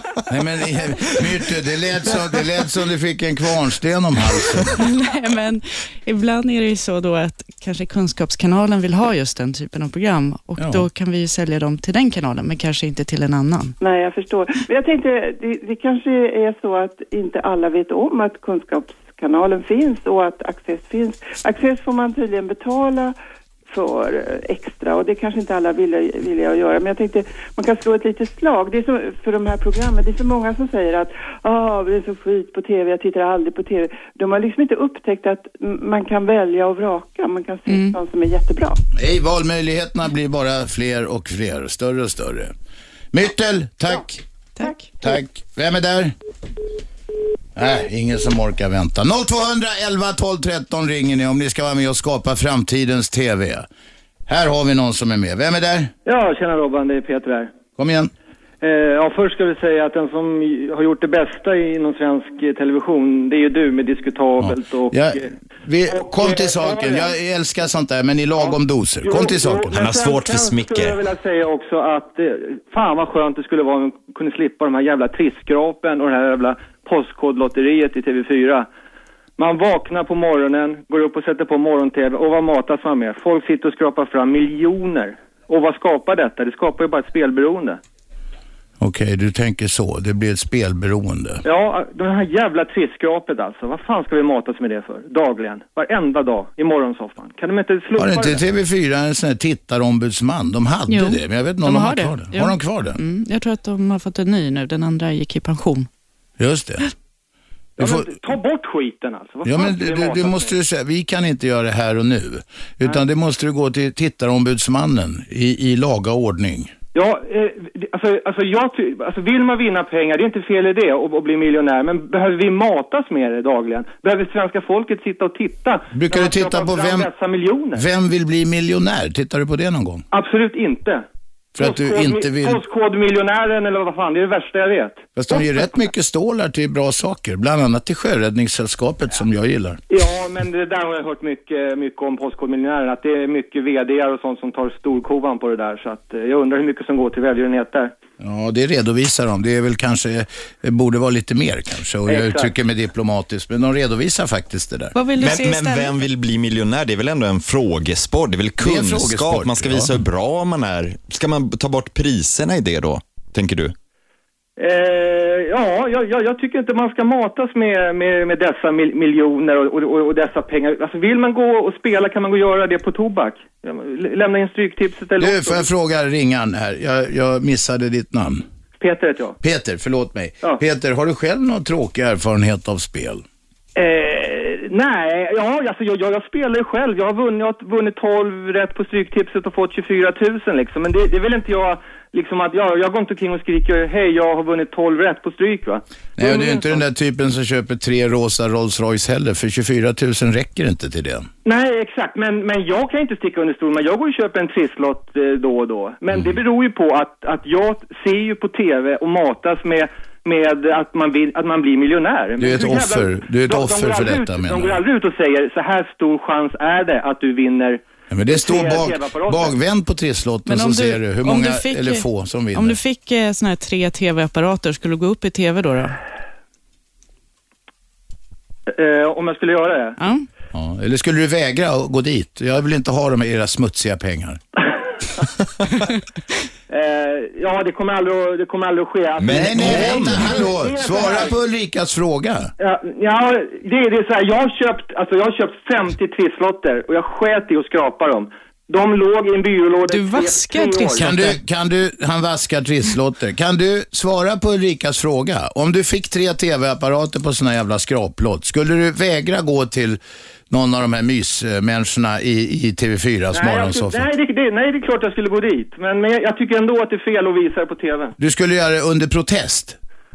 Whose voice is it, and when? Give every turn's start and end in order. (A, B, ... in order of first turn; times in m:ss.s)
0:00.3-0:04.8 A
0:04.8-0:13.8 B
0:10.6-0:10.9 A
0:13.8-0:23.2 C
0:23.7-0:38.8 C
0:37.7-0:38.0 B
0:38.9-0:42.5 A
0:43.1-0:44.2 A
0:44.6-0:44.9 B
0:45.0-0:46.1 A
0:47.6-0:53.7 A
0:54.3-0:55.9 A
0:56.0-0:57.5 D
0:57.8-0:58.1 A
0:58.6-1:05.2 D
1:04.4-1:09.8 A
1:05.9-1:07.1 D
1:08.4-1:18.7 D
1:09.6-1:11.0 E
1:19.4-1:27.8 D
1:28.8-1:31.4 A
1:31.4-1:38.4 D
1:38.0-1:43.0 A
1:40.9-1:45.9 B
1:46.4-1:46.9 A
1:47.8-1:48.2 A
1:47.8-1:50.5 D
1:49.4-1:56.7 A
1:56.9-2:07.8 D
2:05.9-2:07.1 A
2:07.8-2:10.0 A
2:10.1-2:11.0 D
2:11.6-2:12.6 A
2:11.6-2:15.1 D
2:15.2-2:19.8 A
2:19.9-2:27.9 D
2:28.2-2:35.0 A
2:32.1-2:32.5 D
2:35.0-2:36.0 B
2:35.2-2:43.7 E
2:38.6-2:40.0 A
2:44.6-2:55.7 D
2:55.2-2:58.4 A
2:58.8-2:59.4 D
2:59.4-3:03.2 A
3:03.8-3:16.8 D
3:16.2-3:21.3 A
3:21.4-3:39.5 D
3:32.4-3:34.8 A
3:38.1-3:42.8 A
3:40.5-3:46.0 B
3:48.7-3:50.0 D
3:50.0-3:50.3 B
3:50.5-3:54.4 A
3:56.7-4:01.4 D
3:59.2-4:00.5 E
3:59.3-4:02.5 A
4:02.6-4:11.1 D
4:09.9-4:11.4 B
4:11.0-4:24.1 A
4:23.3-4:28.2 D
4:28.2-4:29.8 A